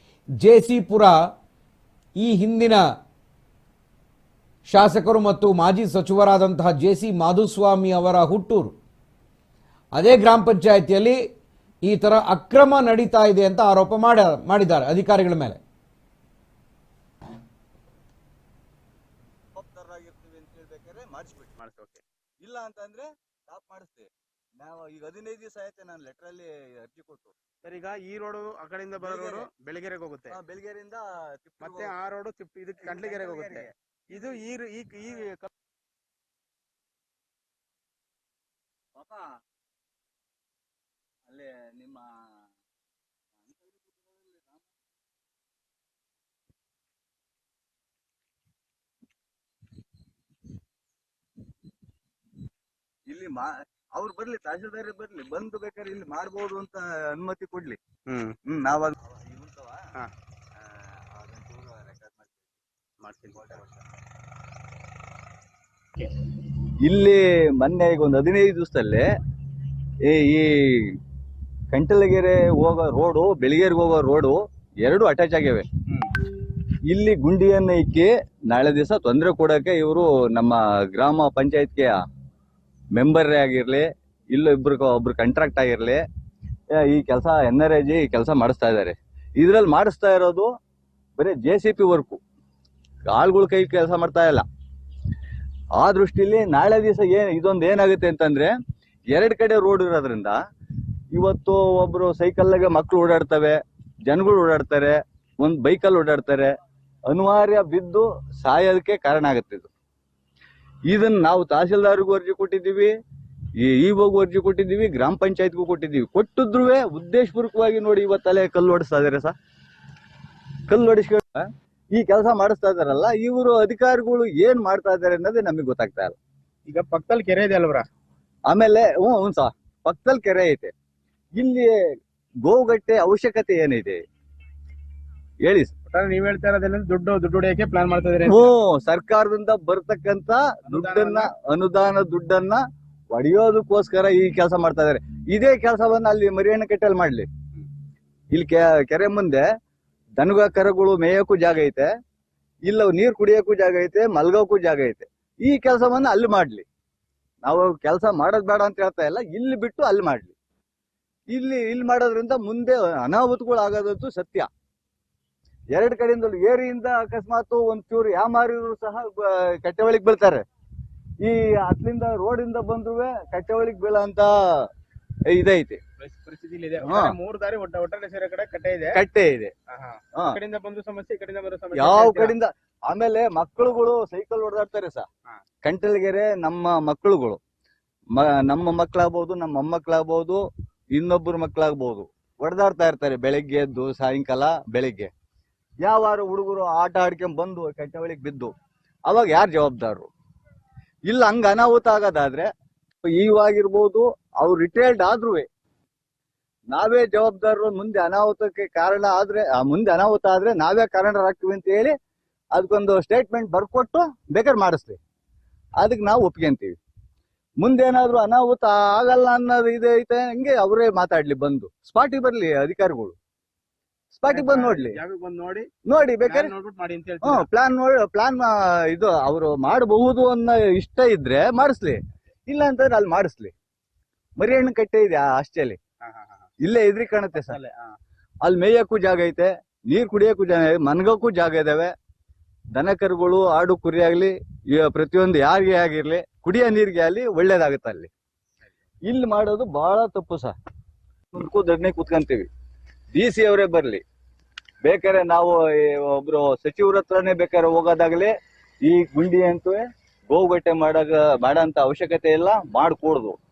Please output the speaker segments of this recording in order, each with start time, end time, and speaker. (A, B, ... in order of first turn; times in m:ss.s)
0:00.4-0:01.2 A
0:02.2-0:02.8 A
0:04.7-0:08.7 A
0:10.0-0:11.2 A
0:11.8-0:15.6 A
0:19.6-0:21.6 B
0:21.6-0:22.0 C
0:22.4-0:27.3 B
0:27.6-0:30.4 C
0:29.0-0:29.5 B
0:30.3-0:32.0 B
0:31.6-0:35.5 C
0:32.8-0:34.3 B
0:39.0-0:39.4 B
0:41.3-0:42.3 B
0:43.4-0:44.6 B
0:53.1-0:57.8 B
0:58.1-0:58.4 C
0:58.5-0:59.9 B
1:00.6-1:02.6 B
1:03.0-1:03.5 C
1:03.4-1:03.9 B
1:06.4-1:09.1 B
1:10.0-1:11.0 B
1:11.7-1:15.7 B
1:16.9-1:22.0 B
1:23.0-1:26.0 B
1:26.8-1:30.5 B
1:31.2-1:32.2 B
1:33.1-1:34.4 B
1:35.8-1:38.5 B
1:39.1-1:40.4 B
1:41.1-1:46.5 B
1:47.1-1:49.7 B
1:50.9-1:52.9 B
1:53.6-1:59.4 B
2:00.7-2:06.2 B
2:06.7-2:07.8 C
2:08.5-2:10.7 B
2:11.4-2:11.8 B
2:12.4-2:14.0 B
2:15.4-2:15.7 B
2:15.9-2:18.5 C
2:18.3-2:27.3 B
2:20.7-2:21.3 C
2:28.3-2:29.4 B
2:30.2-2:31.9 B
2:32.7-2:36.6 B
2:37.4-2:40.4 B
2:41.3-2:44.5 B
2:45.7-2:50.4 B
2:51.2-2:54.7 B
2:55.3-2:55.8 B
2:56.0-2:59.0 C
2:56.8-2:57.2 B
2:58.9-2:59.5 B
2:59.7-3:02.4 C
3:01.7-3:05.1 B
3:05.6-3:07.4 B
3:08.1-3:15.1 B
3:15.8-3:18.5 B
3:19.1-3:20.1 B
3:21.1-3:22.5 B
3:23.0-3:25.5 B
3:26.7-3:31.9 B
3:32.5-3:35.0 B
3:35.8-3:36.8 B
3:37.6-3:43.2 B
3:44.1-3:45.0 B
3:44.3-3:45.7 C
3:45.8-3:46.5 B
3:46.2-3:47.5 C
3:47.2-3:53.5 B
3:54.4-3:55.8 B
3:56.0-3:56.4 C
3:56.6-3:57.6 B
3:57.5-3:58.0 C
3:58.4-4:01.9 B
4:02.8-4:08.1 B
4:09.1-4:10.5 B
4:11.3-4:12.5 B
4:13.2-4:14.0 B
4:14.8-4:18.3 B
4:18.8-4:23.4 B